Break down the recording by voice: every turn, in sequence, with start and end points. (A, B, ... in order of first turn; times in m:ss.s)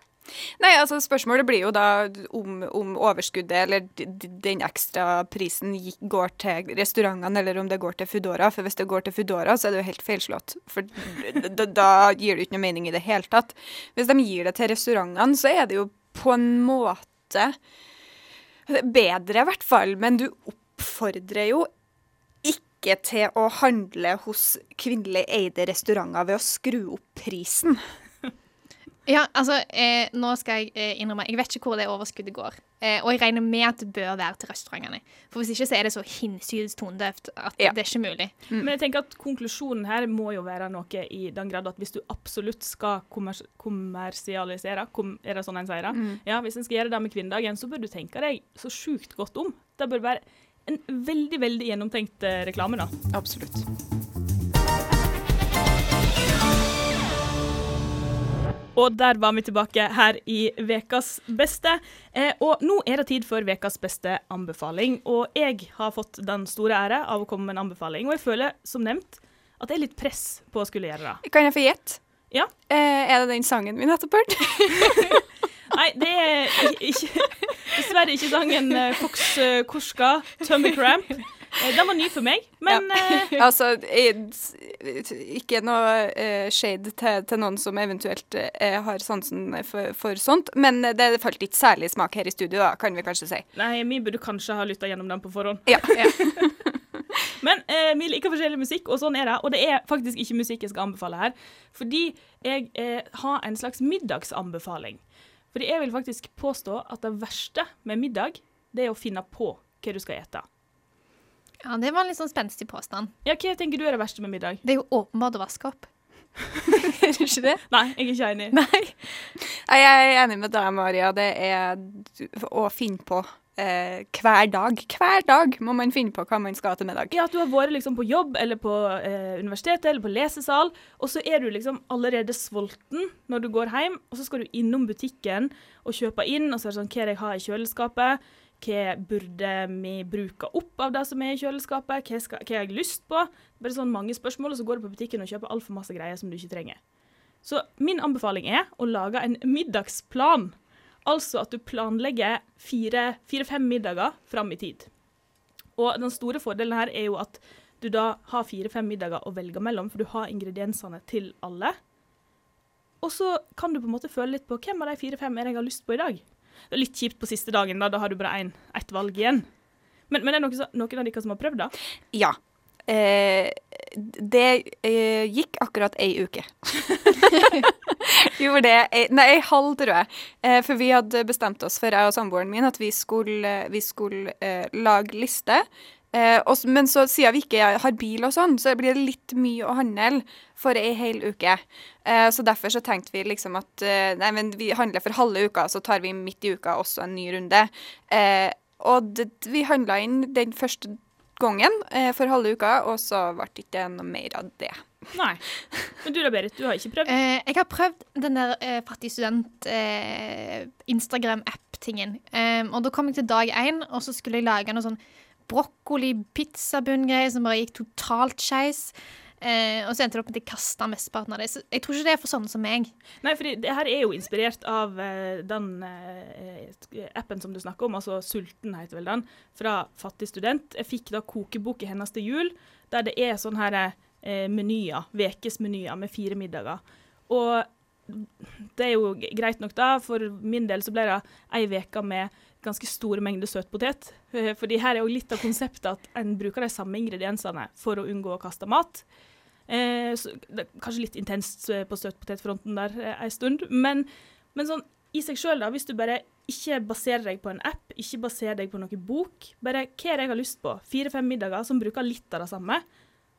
0:00.6-0:17.5 A
0:18.7-0:21.7 A
0:22.4-0:27.8 A
0:29.1-0:38.3 B
0:38.6-0:52.9 C
0:45.9-0:46.2 A
0:53.1-0:53.6 A
0:58.7-1:11.2 C
1:11.2-1:12.1 A
1:12.7-1:15.2 A
1:15.7-1:23.4 C
1:22.7-1:33.4 A
1:23.1-1:23.4 B
1:33.5-1:36.5 C
1:35.7-1:36.5 A
1:37.4-1:50.4 C
1:51.6-1:53.1 B
1:53.2-1:54.6 C
1:54.6-1:55.9 B
1:56.6-1:57.6 B
1:57.7-1:58.6 C
1:58.5-1:59.3 B
1:59.6-2:07.2 A
2:07.1-2:26.8 C
2:27.4-2:34.9 C
2:35.8-2:41.8 C
2:43.0-2:49.4 C
2:50.1-2:51.7 C
2:52.9-3:25.1 A
3:25.1-3:27.1 C
3:27.1-3:42.9 B
3:43.2-4:09.1 C
4:09.7-4:22.8 C